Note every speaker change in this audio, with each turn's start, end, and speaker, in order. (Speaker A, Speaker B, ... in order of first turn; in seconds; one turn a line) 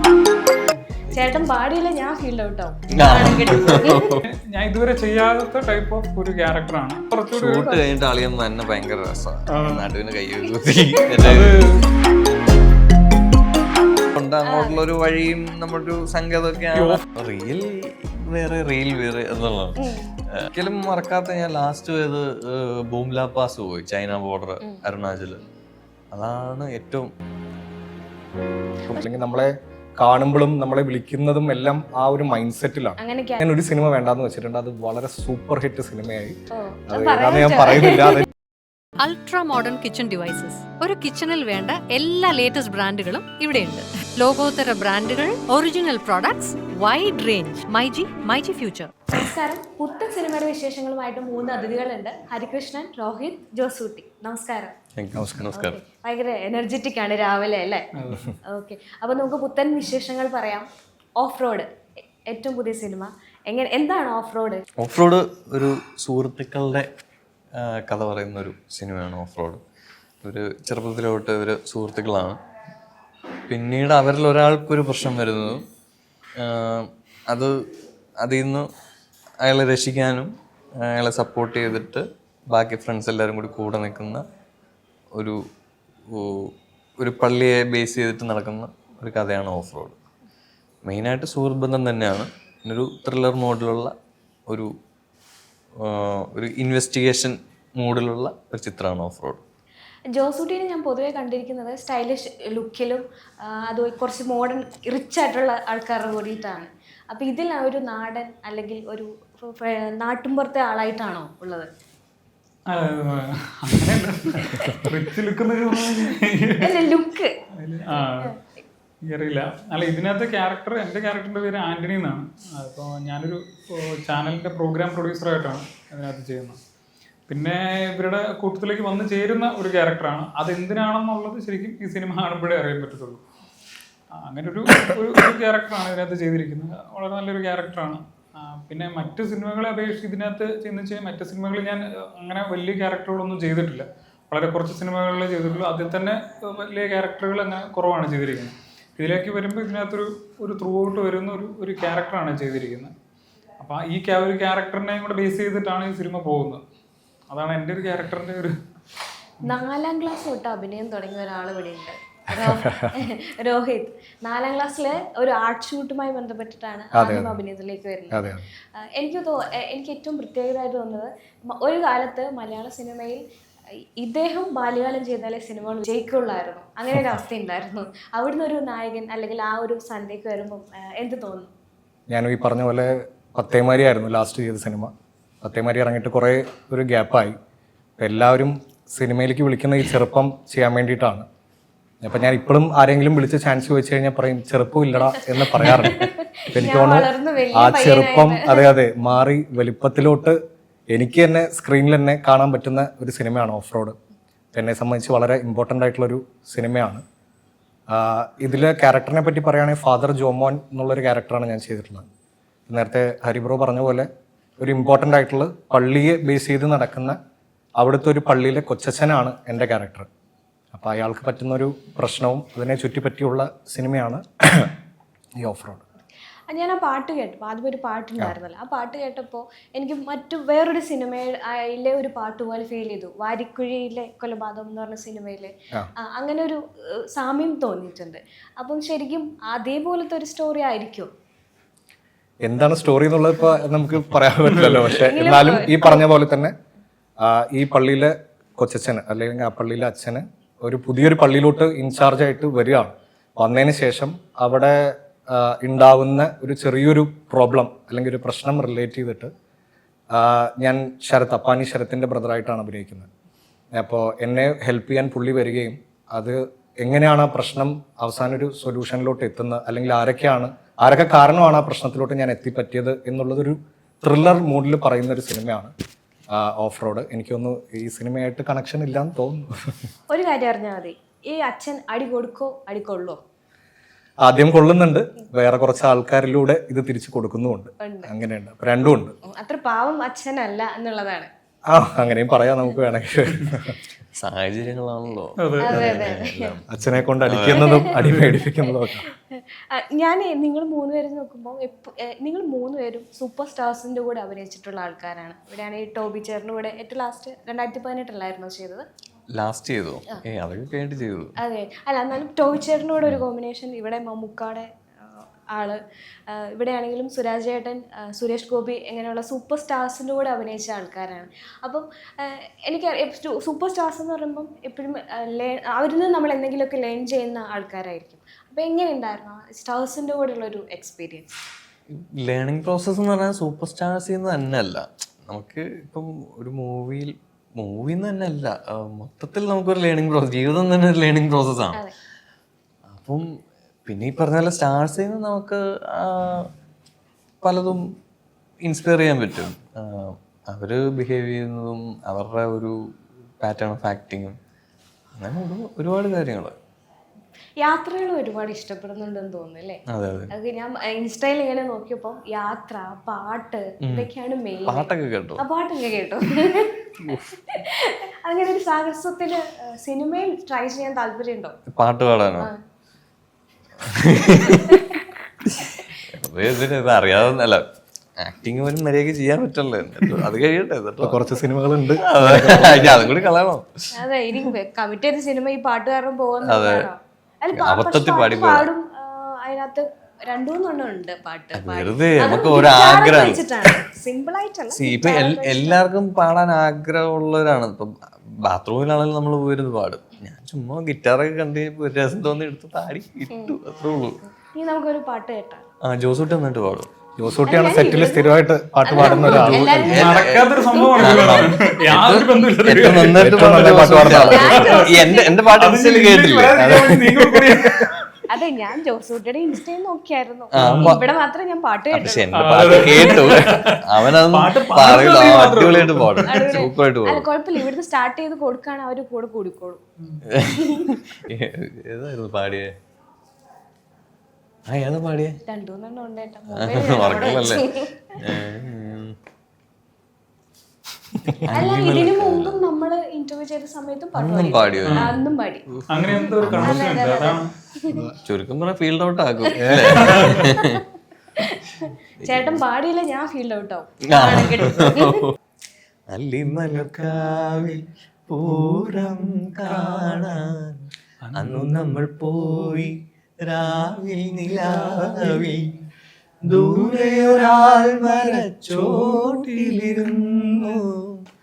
Speaker A: 1.1-4.2
Speaker B: 2.9-4.2
Speaker C: 4.3-7.6
Speaker B: 7.3-11.6
Speaker A: 7.5-7.8
Speaker C: 9.5-9.9
Speaker C: 11.2-11.8
Speaker B: 14.1-19.8
Speaker A: 14.4-14.8
Speaker C: 16.7-17.0
Speaker A: 19.8-20.1
Speaker B: 20.4-25.4
Speaker B: 26.1-27.1
Speaker D: 28.9-36.3
Speaker A: 33.0-33.5
Speaker A: 36.5-38.2
Speaker D: 36.9-38.3
Speaker E: 39.0-48.9
Speaker A: 49.1-54.7
Speaker B: 55.0-55.8
Speaker D: 55.1-55.5
Speaker A: 55.5-57.9
Speaker C: 58.0-58.3
Speaker A: 58.4-60.6
Speaker A: 61.2-61.7
Speaker A: 62.3-64.6
Speaker B: 64.8-66.9
Speaker B: 67.5-69.6
Speaker B: 70.2-72.4
Speaker B: 73.5-75.6
Speaker B: 76.4-77.5
Speaker B: 78.2-78.7
Speaker B: 79.4-84.2
Speaker B: 86.1-90.0
Speaker B: 90.8-93.9
Speaker B: 95.8-99.4
Speaker A: 100.1-111.7
Speaker C: 112.7-116.8
Speaker A: 114.4-114.7
Speaker A: 116.6-117.3
Speaker C: 117.6-118.3
Speaker A: 117.9-118.5
Speaker C: 119.0-126.6
Speaker C: 127.3-133.2
Speaker C: 134.1-152.9
Speaker C: 153.6-156.6
Speaker C: 157.3-158.5
Speaker A: 159.4-168.2
Speaker D: 162.4-162.9
Speaker D: 166.9-167.4
Speaker D: 168.1-168.4
Speaker A: 168.8-173.2
Speaker A: 174.0-181.5
Speaker D: 182.1-184.9
Speaker D: 185.4-187.3
Speaker D: 188.0-191.2
Speaker D: 192.0-200.4
Speaker A: 195.6-198.7
Speaker D: 200.9-203.9
Speaker D: 204.5-207.0
Speaker D: 207.9-212.1
Speaker D: 212.7-214.1
Speaker D: 214.6-217.2
Speaker D: 217.8-220.1
Speaker D: 220.7-224.7
Speaker D: 225.4-225.8
Speaker A: 226.5-235.5
Speaker A: 236.1-236.6
Speaker A: 237.1-241.1
Speaker D: 242.4-246.5
Speaker A: 245.0-246.0
Speaker D: 247.2-259.3
Speaker D: 260.1-263.1
Speaker D: 263.7-275.7
Speaker D: 276.3-279.8
Speaker A: 280.1-283.2
Speaker D: 284.2-289.1
Speaker A: 287.8-288.1
Speaker A: 289.4-291.3
Speaker D: 291.7-293.8
Speaker B: 294.1-297.8
Speaker C: 295.4-295.8
Speaker A: 295.6-296.6
Speaker D: 295.7-296.0
Speaker D: 296.7-299.1
Speaker A: 297.5-308.8
Speaker B: 309.3-311.3
Speaker A: 311.4-315.8
Speaker A: 316.3-331.3
Speaker B: 331.9-341.8
Speaker B: 342.9-343.3
Speaker B: 343.9-346.5
Speaker B: 347.4-347.8
Speaker B: 348.6-352.8
Speaker B: 353.4-354.4
Speaker B: 355.2-356.6
Speaker A: 357.6-359.8
Speaker B: 359.9-360.3
Speaker A: 360.3-371.5
Speaker B: 363.8-364.1
Speaker B: 364.7-365.4
Speaker B: 371.7-372.5
Speaker B: 373.8-377.6
Speaker B: 378.2-381.3
Speaker D: 381.0-383.1
Speaker B: 381.9-383.7
Speaker A: 384.0-395.9
Speaker B: 386.4-386.9
Speaker B: 387.5-388.7
Speaker B: 391.5-393.8
Speaker B: 394.7-404.2
Speaker A: 404.5-405.6
Speaker B: 405.8-406.9
Speaker D: 407.2-409.9
Speaker A: 407.4-408.3
Speaker A: 408.8-411.4
Speaker C: 409.3-413.2
Speaker B: 409.5-416.9
Speaker D: 413.2-414.7
Speaker A: 414.1-415.4
Speaker C: 414.5-415.0
Speaker C: 415.6-417.9
Speaker D: 416.7-417.6
Speaker A: 418.3-422.2
Speaker B: 420.5-421.0
Speaker C: 420.6-421.0
Speaker B: 421.9-427.2
Speaker C: 422.3-426.6
Speaker A: 426.2-429.8
Speaker B: 430.3-432.7
Speaker A: 430.6-430.9
Speaker B: 434.7-435.4
Speaker A: 435.5-438.0
Speaker B: 436.5-439.1
Speaker B: 441.2-442.6
Speaker A: 441.5-448.0
Speaker B: 444.1-445.1
Speaker C: 444.8-445.2
Speaker C: 445.9-447.5
Speaker D: 446.5-446.9
Speaker B: 448.2-450.8
Speaker A: 449.5-450.8
Speaker D: 449.6-450.1
Speaker A: 451.4-455.3
Speaker B: 452.2-452.6
Speaker B: 454.1-455.3
Speaker B: 456.1-465.7
Speaker C: 461.2-461.8
Speaker B: 466.4-471.2
Speaker C: 468.9-470.1